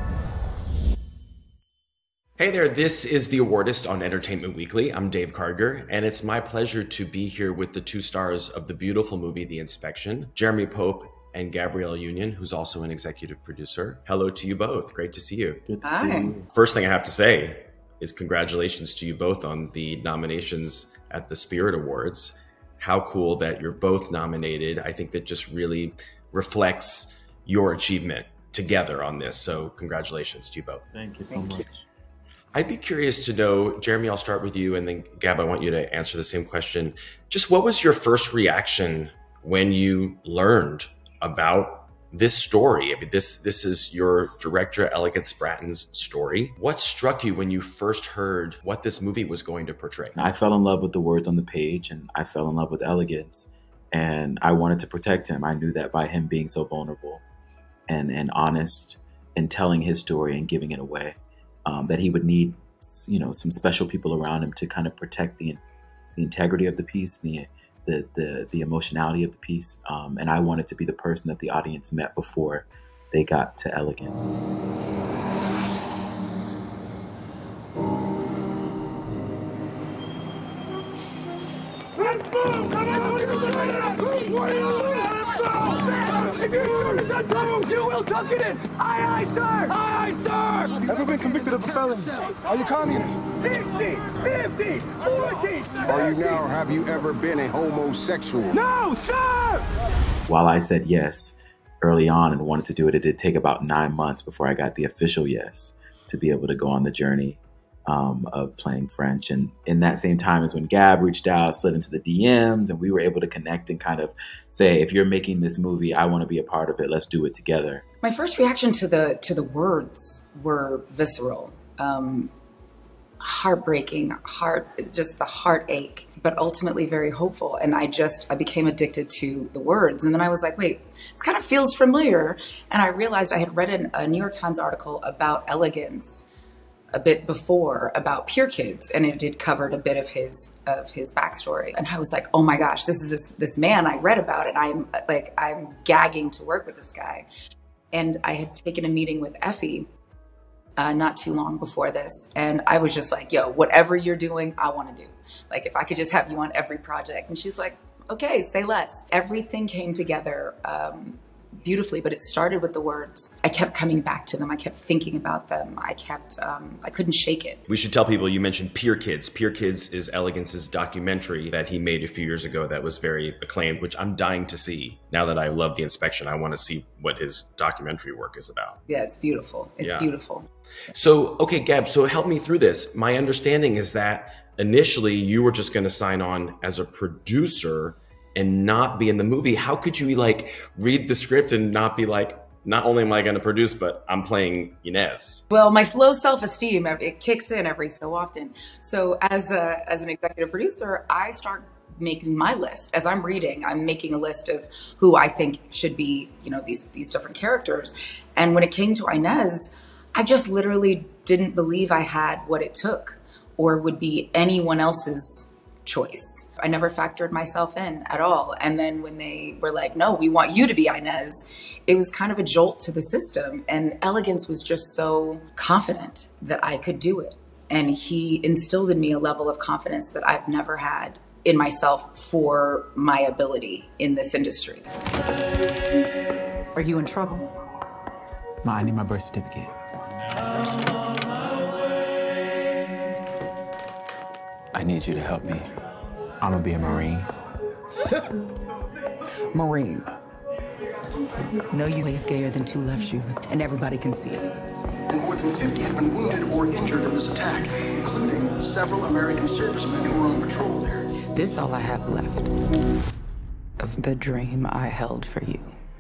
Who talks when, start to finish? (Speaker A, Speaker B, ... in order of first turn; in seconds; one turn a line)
Speaker A: 2.4-15.7
Speaker B: 15.7-16.4
Speaker C: 15.8-16.4
Speaker A: 16.5-30.9
Speaker B: 30.9-31.8
Speaker A: 32.5-50.2
Speaker B: 50.2-57.2
Speaker B: 57.9-65.6
Speaker B: 66.2-74.4
Speaker D: 82.0-90.9
Speaker E: 90.9-94.2
Speaker D: 93.4-96.4
Speaker E: 95.8-98.6
Speaker D: 98.5-99.7
Speaker B: 100.3-117.8
Speaker C: 118.0-122.3
Speaker C: 123.2-136.3
Speaker C: 136.9-147.3
Speaker C: 147.9-149.9
Speaker C: 150.8-167.6
Speaker A: 167.7-178.8
Speaker C: 178.9-180.5
Speaker A: 179.8-180.2
Speaker A: 180.9-195.4
Speaker C: 195.5-234.9
Speaker C: 236.8-237.5
Speaker F: 238.7-239.7
Speaker F: 244.8-245.7
Speaker F: 246.4-247.3
Speaker G: 249.5-250.1
Speaker G: 251.7-254.5
Speaker H: 255.1-261.1
Speaker G: 261.2-262.5
Speaker G: 263.8-265.7